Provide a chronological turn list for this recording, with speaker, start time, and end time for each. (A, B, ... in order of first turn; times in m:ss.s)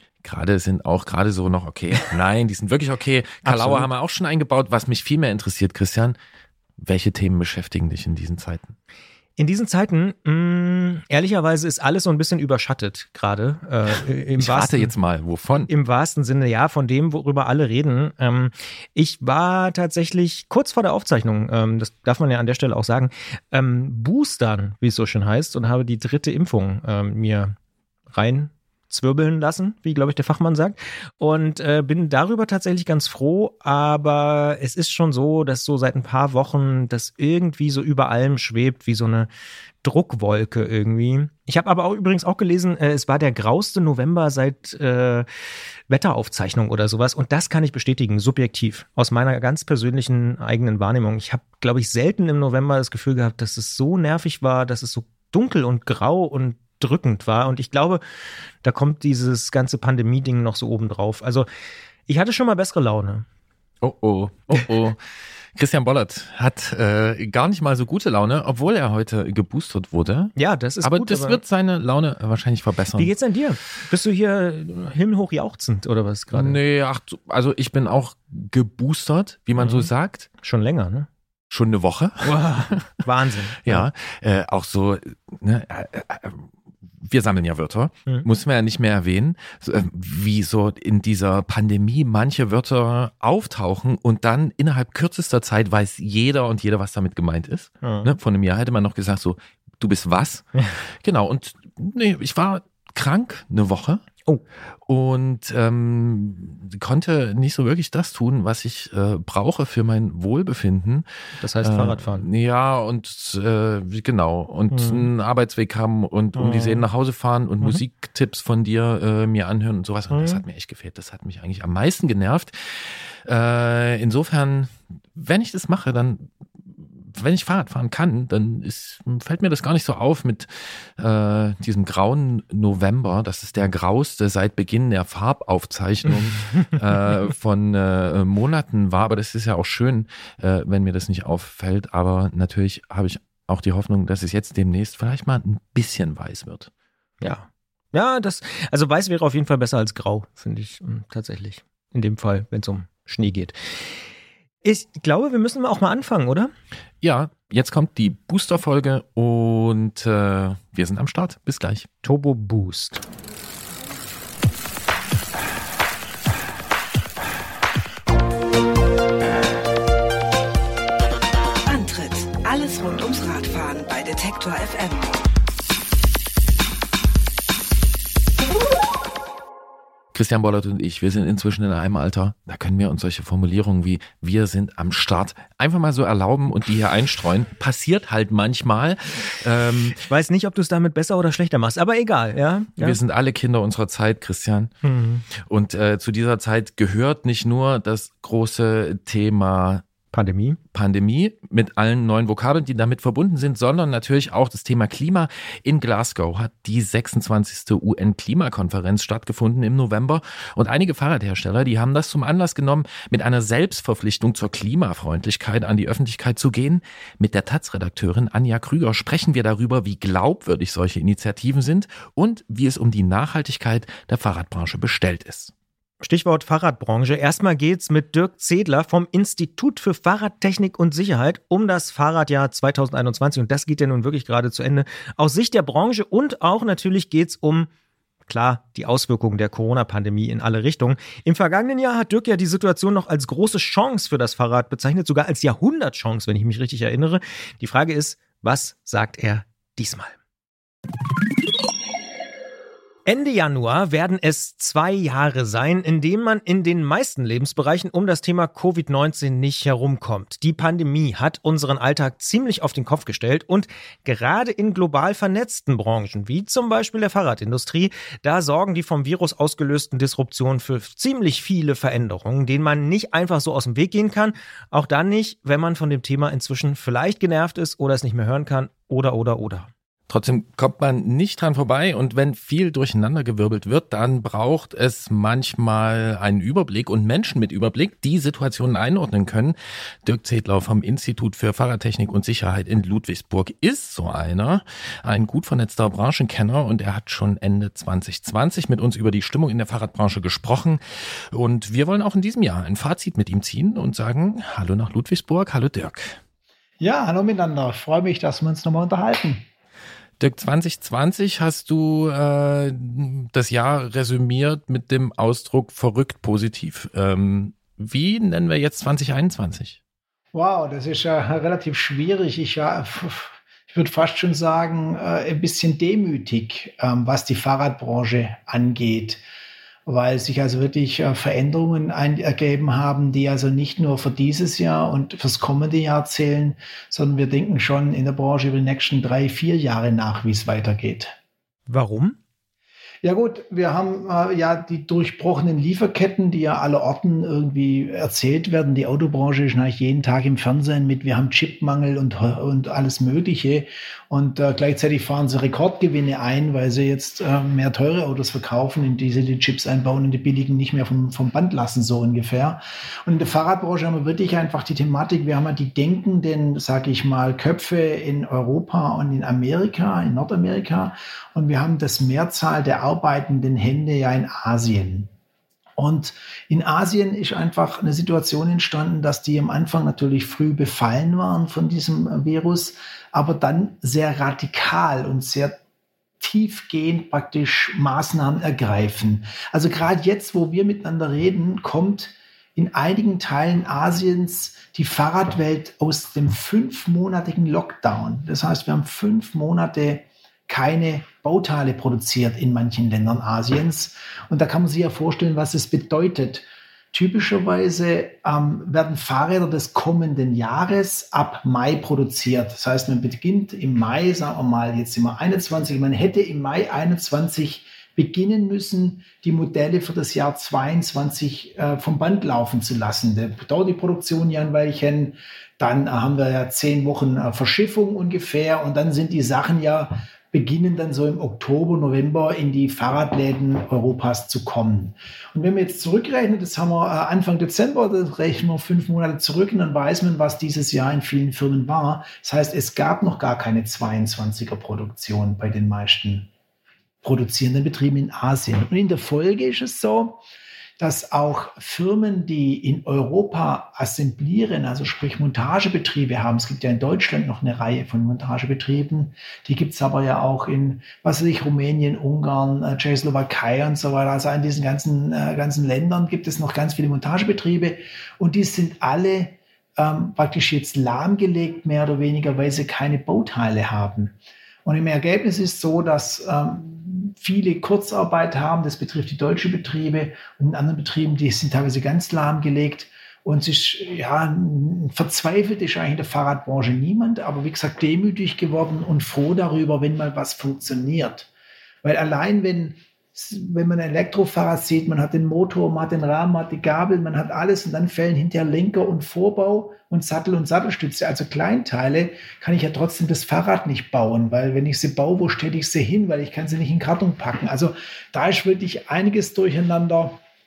0:00.2-0:06.2 A
0:03.4-0:03.9 B
0:06.8-0:08.7 A
0:09.4-0:14.9 B
0:14.4-0:15.7 A
0:15.7-0:27.6 B
0:28.1-0:39.3 B
0:39.8-0:45.3 B
0:45.9-0:58.0 B
0:58.6-1:01.5 B
1:02.1-1:03.2 B
1:03.8-1:05.0 A
1:05.5-1:13.1 A
1:10.4-1:11.4 B
1:13.0-1:16.6 B
1:16.3-1:20.3 A
1:19.6-1:19.9 B
1:20.4-1:21.1 B
1:21.5-1:22.3 A
1:22.2-1:23.8 B
1:23.6-1:26.5 A
1:27.0-1:44.0 A
1:37.8-1:38.1 B
1:44.8-1:51.0 A
1:51.4-1:52.2 B
1:51.6-2:06.3 A
1:54.7-1:55.1 B
1:56.3-1:56.8 B
2:00.1-2:00.4 B
2:07.0-2:26.7 A
2:27.2-2:33.6 B
2:34.6-2:36.5 B
2:37.0-2:41.9 A
2:42.0-2:43.0 B
2:51.6-2:55.2 C
3:00.1-3:10.0 A
3:09.9-3:13.0 B
3:12.8-3:14.7 A
3:14.8-3:15.2 B
3:15.3-3:19.8 A
3:20.1-3:20.6 B
3:20.7-3:45.5 A
3:46.0-3:57.7 B
3:58.3-4:10.1 B
4:13.0-4:39.7 B
4:40.1-5:06.2 A
5:06.8-5:09.4 D
5:10.2-5:19.8 A
5:20.3-5:29.2 D
5:29.8-5:41.2 D
5:41.7-5:42.2 B
5:43.0-6:15.1 D
6:15.8-6:25.6 D
6:26.2-7:26.3 D
7:27.0-7:30.2 D
7:30.8-8:11.3 D
8:11.8-8:30.2 D